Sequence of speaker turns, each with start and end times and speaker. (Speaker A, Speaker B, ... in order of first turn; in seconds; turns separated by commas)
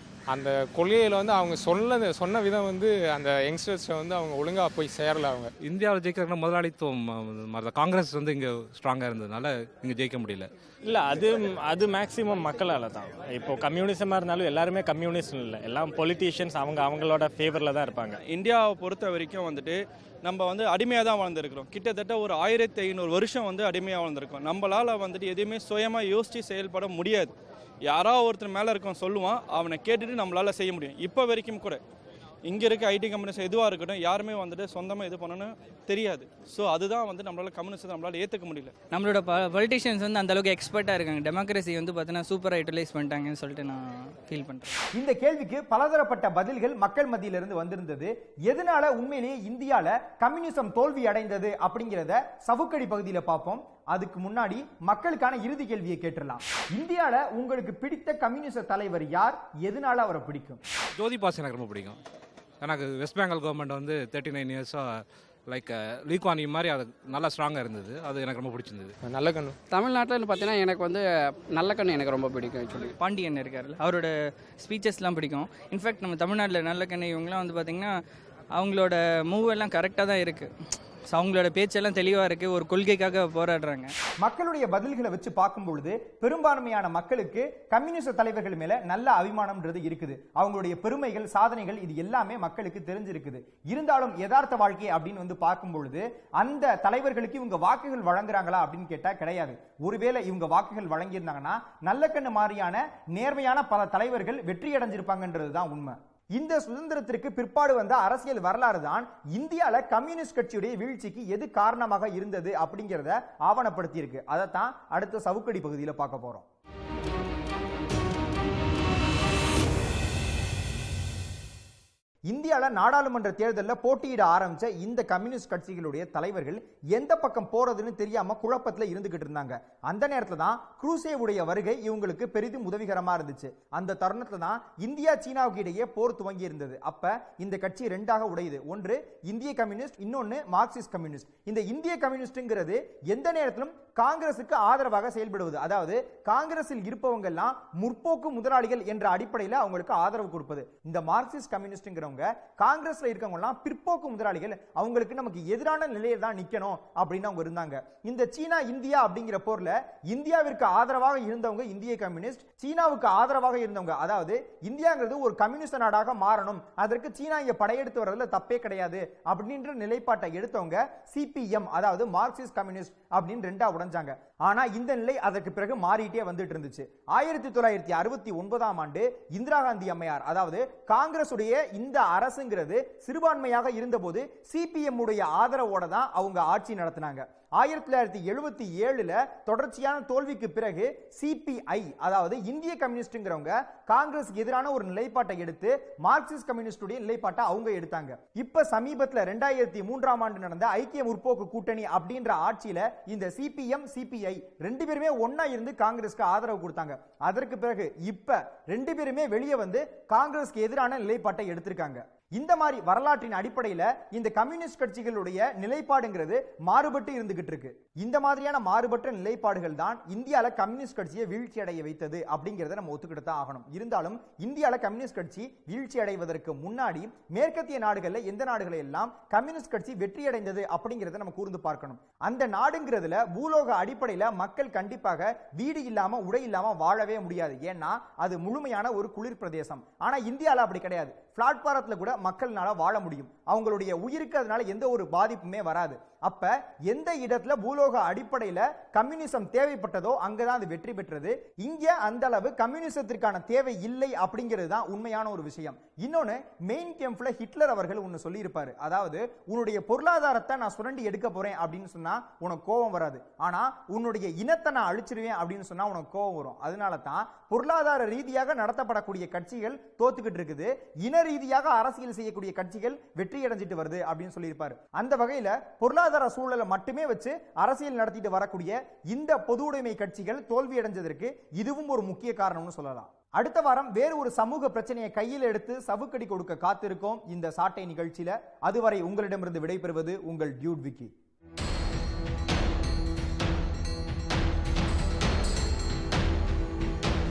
Speaker A: 0.3-5.5, Speaker B: 5.6-10.5, Speaker C: 10.8-18.2, Speaker D: 18.2-27.3, Speaker D: 27.9-31.8, Speaker D: 32.5-38.8, Speaker E: 38.9-44.8, Speaker F: 44.9-60.6, Speaker B: 61.0-62.0, Speaker B: 62.6-68.9, Speaker A: 69.1-69.5, Speaker G: 69.7-72.9, Speaker E: 73.0-77.9, Speaker E: 78.5-80.5, Speaker E: 81.1-83.9, Speaker F: 84.2-116.4, Speaker F: 122.3-291.1